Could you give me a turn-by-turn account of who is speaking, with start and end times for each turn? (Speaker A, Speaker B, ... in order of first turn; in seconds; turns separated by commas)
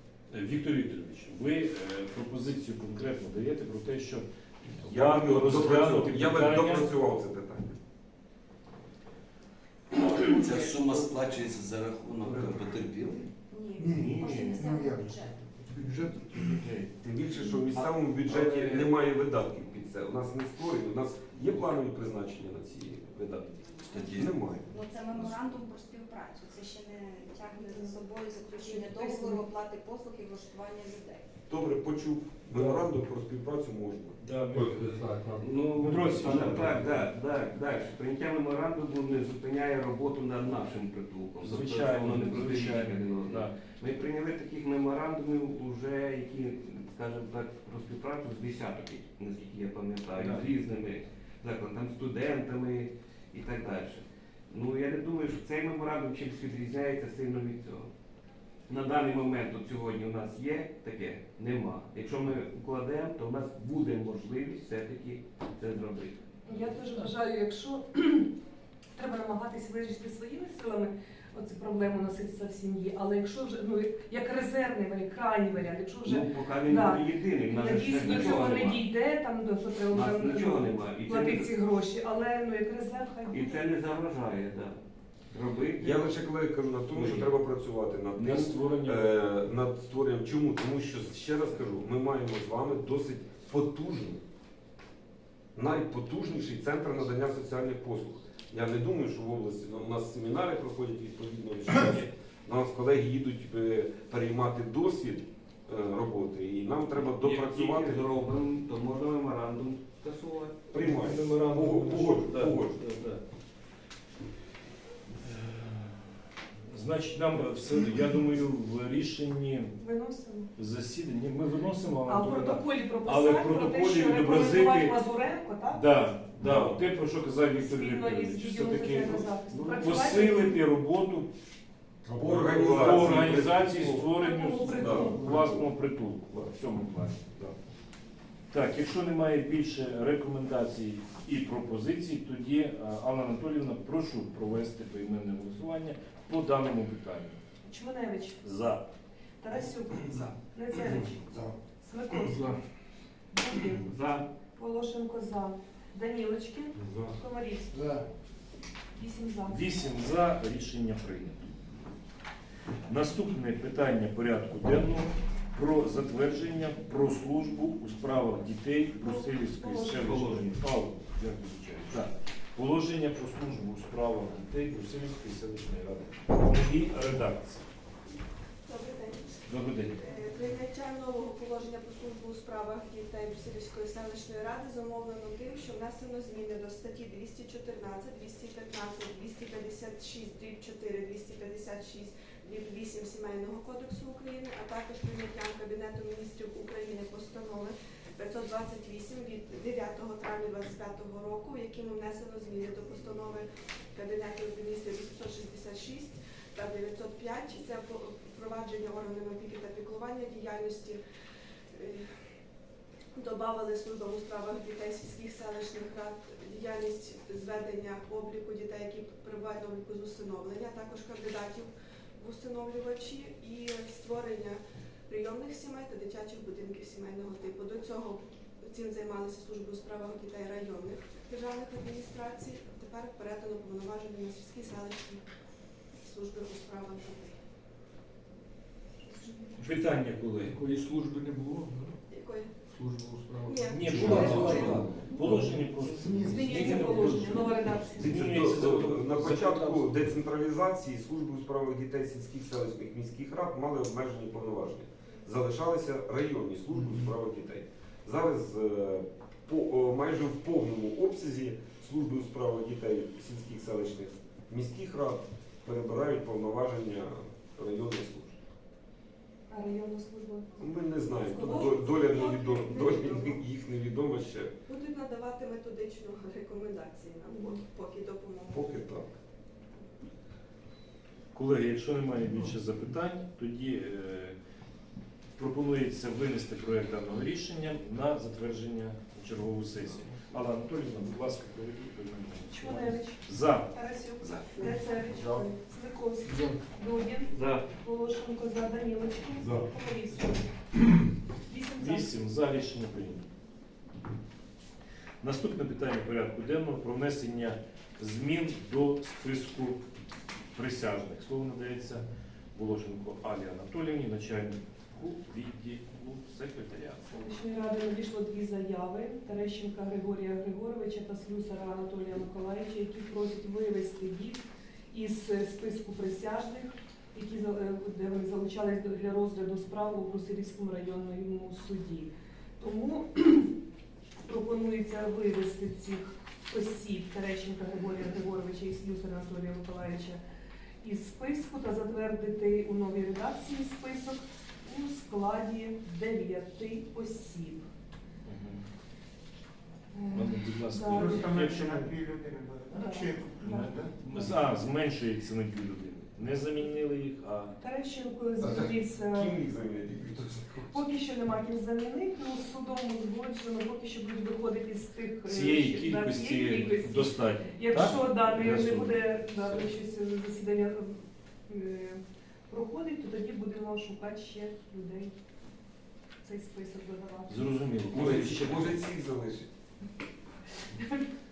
Speaker A: 0.3-6.9, Speaker B: 4.7-7.8, Speaker C: 9.9-13.3, Speaker D: 13.5-15.4, Speaker E: 13.8-16.5, Speaker F: 13.9-14.4, Speaker F: 16.3-16.9, Speaker B: 17.0-23.5, Speaker F: 17.6-19.0, Speaker D: 23.6-31.2, Speaker C: 23.9-25.4, Speaker B: 24.1-24.7, Speaker G: 28.6-29.4, Speaker B: 31.5-34.2, Speaker A: 32.5-32.8, Speaker A: 34.2-35.0, Speaker H: 34.5-35.4, Speaker F: 35.4-57.9, Speaker A: 35.6-36.9, Speaker A: 41.4-43.5, Speaker A: 50.2-50.5, Speaker F: 58.7-66.6, Speaker G: 66.5-68.3, Speaker G: 69.0-83.7, Speaker F: 76.0-78.8, Speaker F: 79.9-81.5, Speaker F: 83.3-84.8, Speaker F: 85.3-86.2, Speaker B: 85.8-94.2, Speaker F: 86.9-87.3, Speaker A: 88.2-89.0, Speaker B: 95.5-108.0, Speaker F: 107.1-110.6, Speaker B: 110.7-112.8, Speaker A: 110.7-113.2, Speaker A: 115.2-116.0, Speaker A: 116.7-119.8, Speaker G: 119.8-120.5, Speaker A: 120.5-125.0, Speaker G: 122.1-125.8, Speaker A: 125.7-131.3, Speaker G: 127.5-130.6, Speaker A: 132.1-137.4, Speaker B: 132.1-134.1, Speaker G: 134.2-135.5, Speaker B: 134.7-135.4, Speaker A: 138.5-147.3, Speaker G: 147.7-148.4, Speaker A: 148.4-148.8, Speaker G: 149.4-152.5, Speaker H: 152.2-152.6, Speaker G: 153.3-153.8, Speaker F: 153.8-154.2, Speaker G: 154.6-157.8, Speaker E: 157.7-158.1, Speaker G: 158.9-159.6, Speaker A: 159.5-161.8, Speaker A: 162.9-177.6, Speaker G: 169.0-170.1, Speaker F: 169.8-170.6, Speaker I: 178.7-211.0, Speaker A: 179.5-180.0, Speaker I: 211.7-212.1, Speaker I: 213.1-235.2, Speaker I: 236.0-237.4, Speaker I: 239.1-239.5, Speaker A: 239.6-240.6, Speaker H: 240.4-242.0, Speaker I: 242.1-242.5, Speaker H: 242.7-245.5, Speaker I: 243.4-244.7, Speaker A: 243.7-250.0, Speaker E: 243.9-244.7, Speaker E: 246.0-247.3, Speaker H: 246.0-246.7, Speaker G: 246.3-248.1, Speaker B: 247.9-268.4, Speaker G: 269.5-272.3, Speaker B: 270.6-274.5, Speaker I: 271.3-273.4, Speaker I: 274.6-278.8, Speaker G: 277.3-277.6, Speaker B: 278.5-279.1, Speaker A: 281.3-284.4, Speaker A: 285.4-293.7, Speaker G: 292.5-300.5, Speaker C: 294.2-294.5, Speaker E: 294.6-295.4, Speaker H: 296.2-296.6, Speaker F: 297.3-297.6, Speaker G: 301.5-302.1, Speaker A: 301.8-303.2, Speaker A: 305.2-309.8, Speaker A: 310.5-317.1, Speaker G: 317.1-333.5, Speaker G: 334.2-340.2, Speaker G: 340.8-347.7, Speaker A: 348.2-348.6, Speaker G: 349.9-351.3, Speaker A: 350.1-351.9, Speaker E: 350.8-354.1, Speaker G: 352.8-354.3, Speaker A: 353.4-357.5, Speaker G: 357.6-359.3, Speaker B: 358.4-360.7, Speaker G: 360.7-375.1, Speaker A: 365.2-369.6, Speaker G: 376.2-377.5, Speaker A: 377.3-378.8, Speaker B: 377.9-379.5, Speaker G: 380.8-381.0